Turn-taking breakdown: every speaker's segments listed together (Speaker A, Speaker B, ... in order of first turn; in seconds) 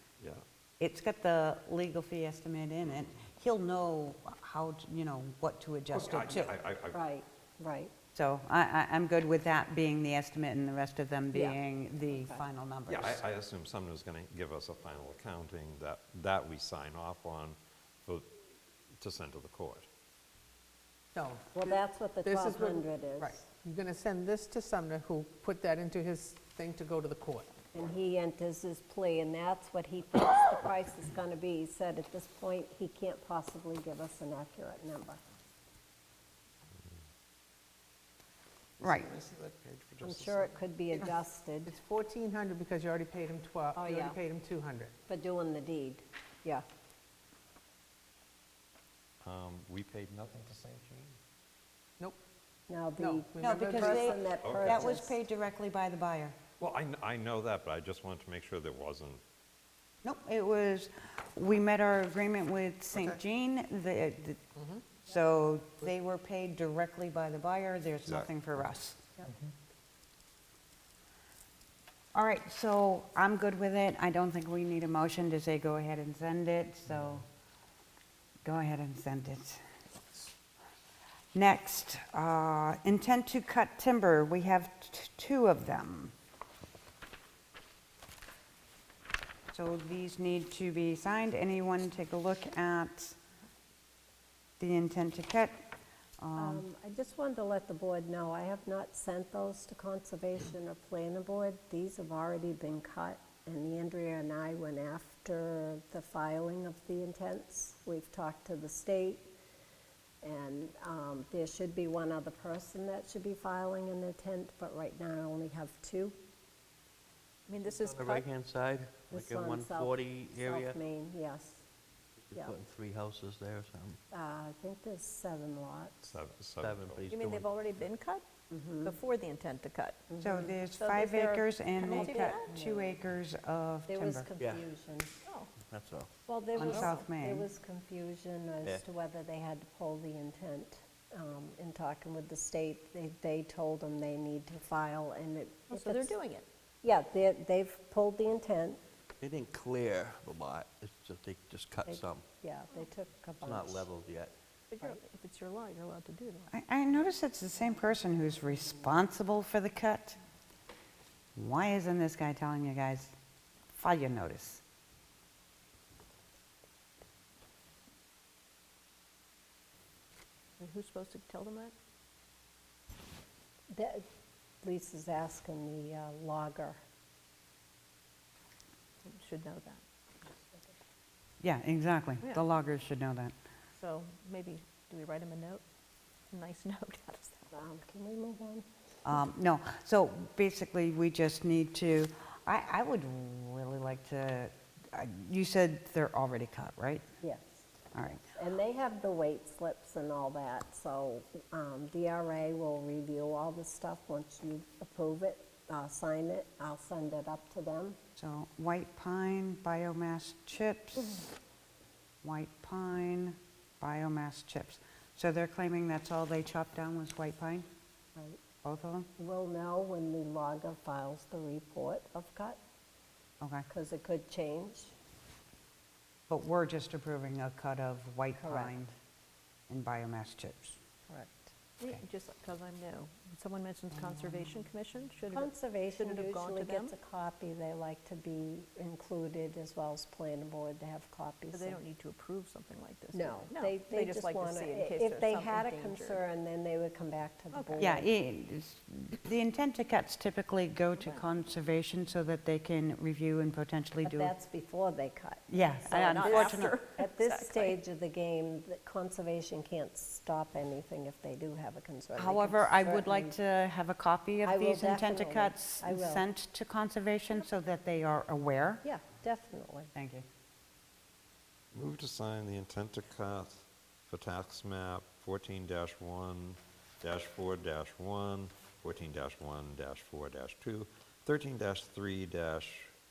Speaker A: 0.8-6.6, 8.1-13.2, 38.8-39.1, 53.4-56.4, 60.0-64.5, 65.0-69.0, 72.1-77.2, 78.4-79.6, 81.3-86.1, 89.5-93.2, 94.6-95.7, 96.2-96.6, 130.2-134.2, 136.6-137.4, 156.5-160.2, 161.3-163.1, 163.7-164.6, 181.4-183.3, 189.0-197.0, 197.9-198.2, 208.2-211.2, 212.2-217.7, 218.6-219.1, 223.4-223.7, 226.3-228.9, 229.7-230.8, 247.8-254.3, 255.5-256.8, 262.1-268.8, 269.9-270.2
Speaker B: 5.9-7.0, 12.9-18.3, 19.0-19.9, 38.8-40.5, 49.2-51.2, 54.3-54.8, 56.6-59.2, 62.9-63.2, 68.0-68.3, 126.0-127.1, 271.7-282.9
Speaker C: 6.9-7.9, 12.1-12.4, 21.5-23.4, 27.7-35.2, 40.0-41.7, 43.7-44.2, 45.1-46.6, 52.7-55.2, 96.4-109.3, 110.2-116.2, 119.1-121.6, 124.1-126.0, 128.5-128.9, 130.1-130.5, 131.8-133.0, 133.9-135.1, 136.3-146.1, 146.8-148.8, 151.8-153.9, 173.7-174.1, 174.6-176.8, 187.5-188.6, 197.2-197.7, 198.2-208.0, 219.2-222.6, 223.7-224.9, 228.3-228.7, 231.1-231.5, 235.3-241.8, 243.1-248.1, 254.0-263.3, 264.4-266.3, 268.8-269.9
Speaker D: 21.1-27.5, 41.6-44.9, 53.0-54.2
Speaker E: 117.5-118.2, 127.1-128.3, 128.8-130.1, 130.8-132.5, 135.2-135.5, 136.6-137.0, 145.7-146.4, 154.7-156.5, 170.6-171.7, 179.0-179.8, 183.8-185.6, 186.3-187.5, 231.8-236.9, 241.5-246.2, 247.5-247.9, 255.9-257.8
Speaker F: 117.7-120.8, 122.2-124.0, 126.6-127.5, 134.4-134.6, 135.6-136.1, 149.2-152.2, 153.4-154.3